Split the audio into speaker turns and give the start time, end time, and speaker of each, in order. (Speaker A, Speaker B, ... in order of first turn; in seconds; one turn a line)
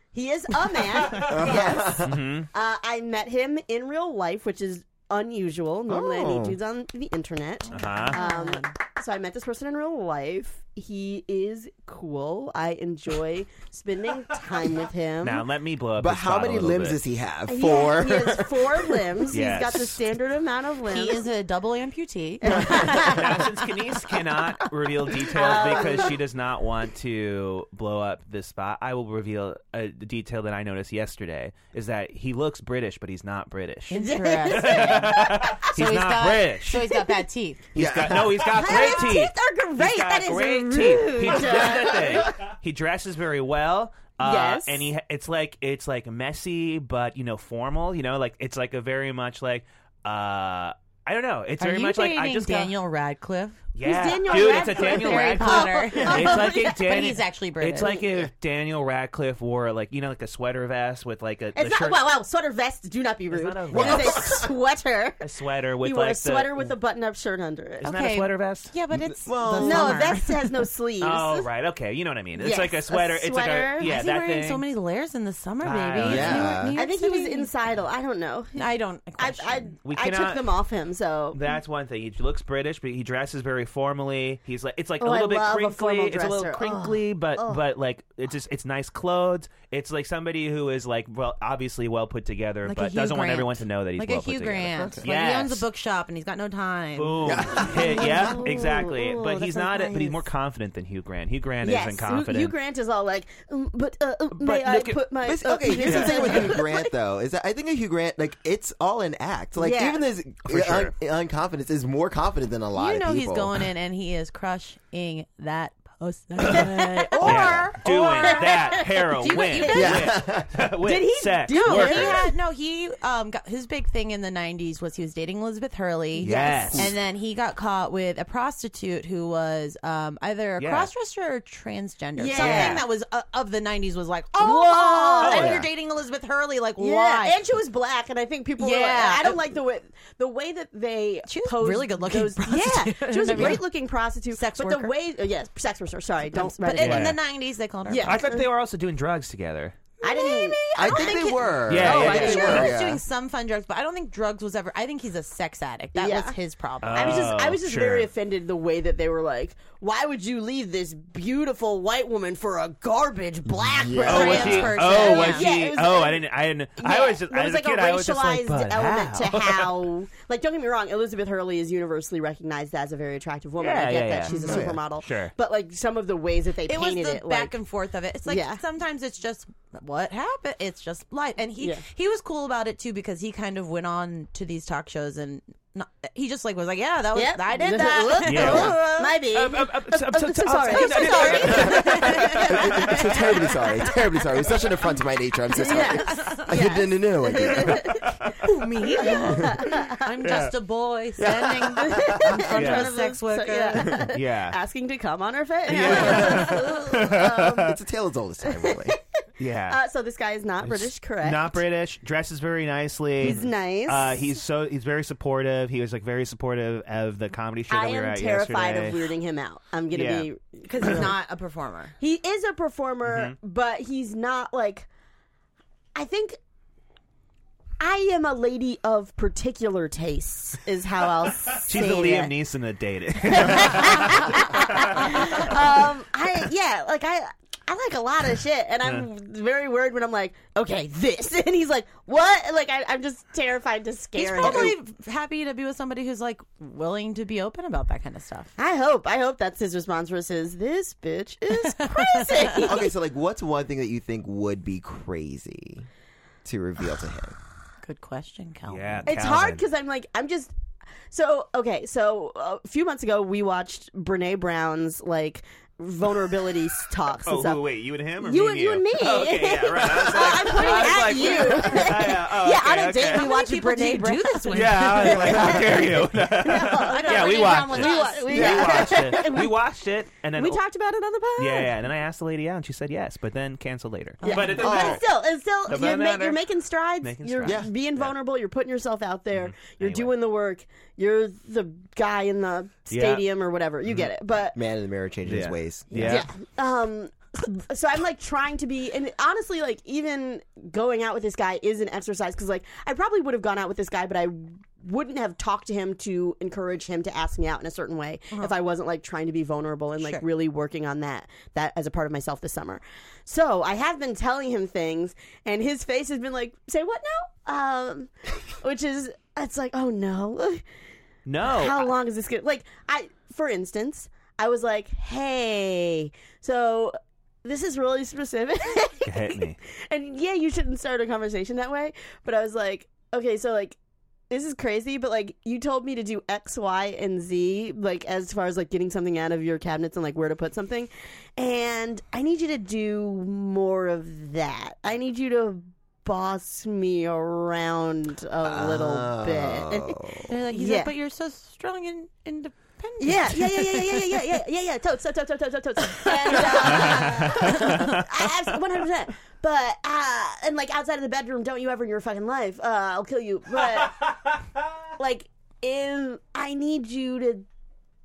Speaker A: 0.1-15.4
Speaker B: 1.1-2.2
Speaker C: 1.4-2.5
Speaker B: 5.9-6.6
Speaker C: 7.7-8.2
Speaker D: 8.1-8.7
Speaker C: 15.2-17.0
Speaker B: 16.0-18.7
Speaker A: 17.5-21.2
Speaker C: 19.2-20.1
Speaker D: 20.9-23.5
Speaker A: 22.4-23.5
Speaker C: 22.7-36.9
Speaker A: 25.2-26.2
Speaker D: 33.9-37.7
Speaker A: 34.0-35.7
Speaker A: 36.7-37.2
Speaker B: 37.7-38.8
Speaker C: 37.8-52.7
Speaker A: 38.5-42.3
Speaker A: 44.2-44.9
Speaker D: 51.6-53.6
Speaker C: 53.8-62.0
Speaker A: 53.8-56.8
Speaker D: 54.1-58.0
Speaker A: 57.8-58.1
Speaker A: 61.6-65.2
Speaker C: 63.3-64.4
Speaker B: 63.7-64.5
Speaker C: 65.2-66.8
Speaker A: 65.8-67.9
Speaker C: 67.8-68.7
Speaker D: 67.8-70.6
Speaker B: 68.9-70.1
Speaker A: 69.6-71.5
Speaker C: 71.0-74.7
Speaker A: 72.4-73.9
Speaker D: 73.8-77.5
Speaker C: 75.6-76.6
Speaker B: 76.0-76.8
Speaker A: 76.8-81.5
Speaker D: 78.6-79.7
Speaker C: 79.8-80.5
Speaker C: 81.3-95.7
Speaker A: 85.0-87.6
Speaker D: 92.7-97.4
Speaker C: 97.0-102.5
Speaker B: 97.2-98.3
Speaker A: 97.5-100.2
Speaker A: 101.6-106.9
Speaker C: 104.3-105.1
Speaker B: 105.2-113.7
Speaker C: 105.6-106.6
Speaker A: 109.6-110.0
Speaker C: 110.4-110.9
Speaker D: 112.8-120.1
Speaker A: 116.4-120.0
Speaker B: 117.2-117.7
Speaker C: 117.2-122.3
Speaker B: 119.7-120.7
Speaker A: 120.8-122.3
Speaker D: 121.6-137.4
Speaker C: 126.2-126.9
Speaker A: 126.2-126.9
Speaker C: 130.6-130.9
Speaker A: 132.2-132.9
Speaker C: 132.3-132.8
Speaker A: 134.4-135.6
Speaker C: 135.2-135.7
Speaker A: 136.8-147.2
Speaker D: 138.6-139.4
Speaker D: 141.3-143.6
Speaker D: 144.3-144.9
Speaker D: 146.3-148.2
Speaker C: 146.8-147.2
Speaker A: 147.9-148.4
Speaker C: 148.0-149.8
Speaker A: 150.0-152.7
Speaker D: 150.0-157.3
Speaker B: 150.8-153.0
Speaker C: 151.7-152.7
Speaker A: 155.9-156.4
Speaker C: 156.8-158.1
Speaker A: 156.9-166.2
Speaker B: 163.5-164.8
Speaker D: 164.1-165.5
Speaker C: 164.1-169.8
Speaker A: 166.8-177.5
Speaker C: 173.6-175.3
Speaker B: 174.3-174.8
Speaker D: 176.7-189.2
Speaker A: 178.3-178.6
Speaker A: 187.2-194.0
Speaker C: 188.2-193.2
Speaker D: 190.7-193.6
Speaker B: 191.5-198.0
Speaker A: 195.5-198.1
Speaker D: 195.7-196.5
Speaker C: 197.8-198.3
Speaker D: 198.4-204.0
Speaker A: 198.9-200.0
Speaker C: 199.2-199.5
Speaker C: 200.2-200.5
Speaker B: 201.2-202.4
Speaker A: 201.7-207.7
Speaker C: 202.5-202.9
Speaker C: 204.0-204.6
Speaker C: 205.7-207.8
Speaker B: 205.8-206.5
Speaker B: 207.1-209.0
Speaker A: 208.5-209.0
Speaker C: 209.4-209.8
Speaker A: 209.7-211.6
Speaker C: 210.6-219.1
Speaker A: 213.2-214.3
Speaker A: 217.7-221.1
Speaker C: 219.9-220.3
Speaker D: 220.7-222.0
Speaker A: 222.0-224.9
Speaker C: 223.0-223.4
Speaker A: 225.9-226.4
Speaker A: 227.8-232.3
Speaker C: 231.6-235.9
Speaker A: 233.2-244.8
Speaker D: 244.2-248.5
Speaker B: 244.4-244.8
Speaker A: 248.6-252.9
Speaker D: 251.6-252.7
Speaker B: 252.6-255.9
Speaker B: 256.4-257.4
Speaker D: 257.8-259.2
Speaker C: 258.7-259.6
Speaker A: 259.1-260.5
Speaker A: 261.1-267.6
Speaker C: 267.2-273.3
Speaker A: 268.2-279.6
Speaker D: 270.4-271.9
Speaker D: 273.0-275.8
Speaker C: 274.5-280.6
Speaker D: 276.6-278.8
Speaker B: 278.3-279.3
Speaker A: 280.4-281.7
Speaker C: 281.4-285.1
Speaker D: 284.2-284.6
Speaker A: 284.2-294.6
Speaker B: 284.5-285.0
Speaker C: 285.6-286.4
Speaker C: 287.0-288.1
Speaker B: 287.4-287.7
Speaker C: 289.4-290.1
Speaker C: 292.9-293.2
Speaker B: 294.5-296.3
Speaker C: 295.3-296.3
Speaker A: 296.0-320.6
Speaker C: 321.3-321.9
Speaker A: 321.5-333.8
Speaker C: 329.1-329.6
Speaker A: 334.3-350.9
Speaker B: 348.4-350.3
Speaker D: 350.3-354.2
Speaker A: 353.0-364.2
Speaker D: 355.8-357.9
Speaker C: 356.4-358.1
Speaker A: 365.0-367.5